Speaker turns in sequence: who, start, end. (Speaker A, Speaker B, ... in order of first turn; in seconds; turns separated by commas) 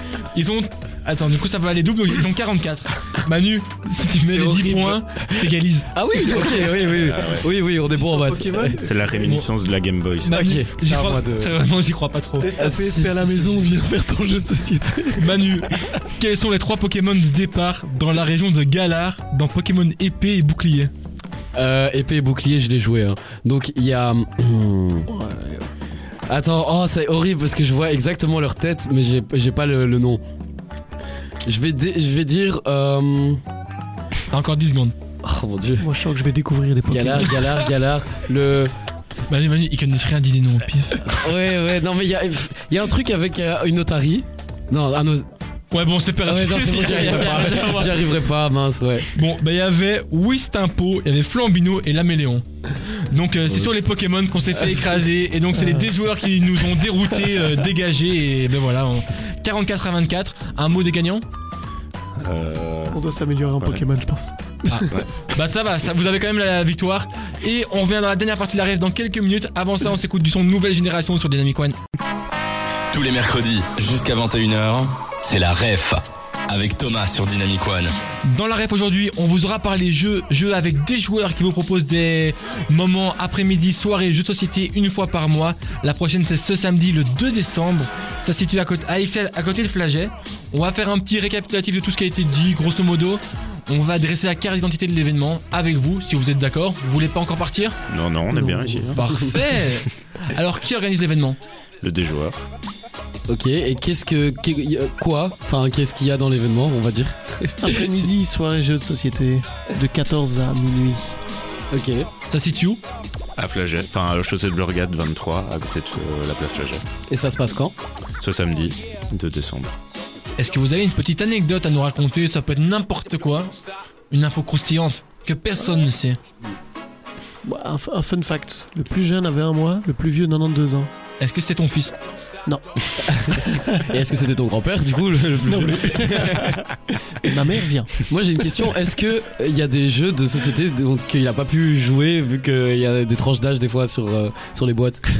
Speaker A: 0.2-5.9, Speaker B: 4.2-8.8, Speaker C: 6.9-7.5, Speaker D: 7.8-9.3, Speaker C: 8.8-10.4, Speaker A: 9.2-9.5, Speaker A: 10.2-12.5, Speaker B: 10.3-11.6, Speaker D: 12.4-15.9, Speaker B: 12.5-13.8, Speaker A: 15.2-20.9, Speaker B: 21.5-25.1, Speaker D: 25.1-25.6, Speaker B: 26.3-30.2, Speaker B: 31.4-33.4, Speaker A: 34.3-34.9, Speaker B: 35.2-35.9, Speaker D: 35.8-37.6, Speaker B: 36.9-38.7, Speaker A: 39.3-41.1, Speaker B: 41.0-45.3, Speaker A: 45.7-48.1, Speaker B: 46.2-49.1, Speaker A: 49.1-61.2, Speaker D: 55.5-55.9, Speaker C: 62.2-63.0, Speaker D: 62.9-64.9, Speaker A: 64.7-71.8, Speaker E: 72.9-77.9, Speaker A: 78.2-97.8, Speaker C: 97.9-99.0, Speaker D: 98.3-99.0, Speaker A: 98.9-101.4, Speaker B: 99.0-99.4, Speaker C: 101.8-102.4, Speaker B: 103.3-108.0, Speaker D: 107.6-111.1, Speaker B: 111.7-112.1, Speaker A: 112.3-112.8, Speaker C: 113.3-116.8, Speaker B: 117.1-117.7, Speaker C: 118.2-119.8, Speaker A: 120.4-123.5, Speaker A: 124.1-126.2, Speaker D: 127.4-130.9, Speaker A: 131.2-131.9, Speaker D: 132.4-133.9, Speaker B: 133.1-136.6, Speaker D: 135.4-136.6, Speaker D: 137.2-138.1, Speaker B: 138.0-145.0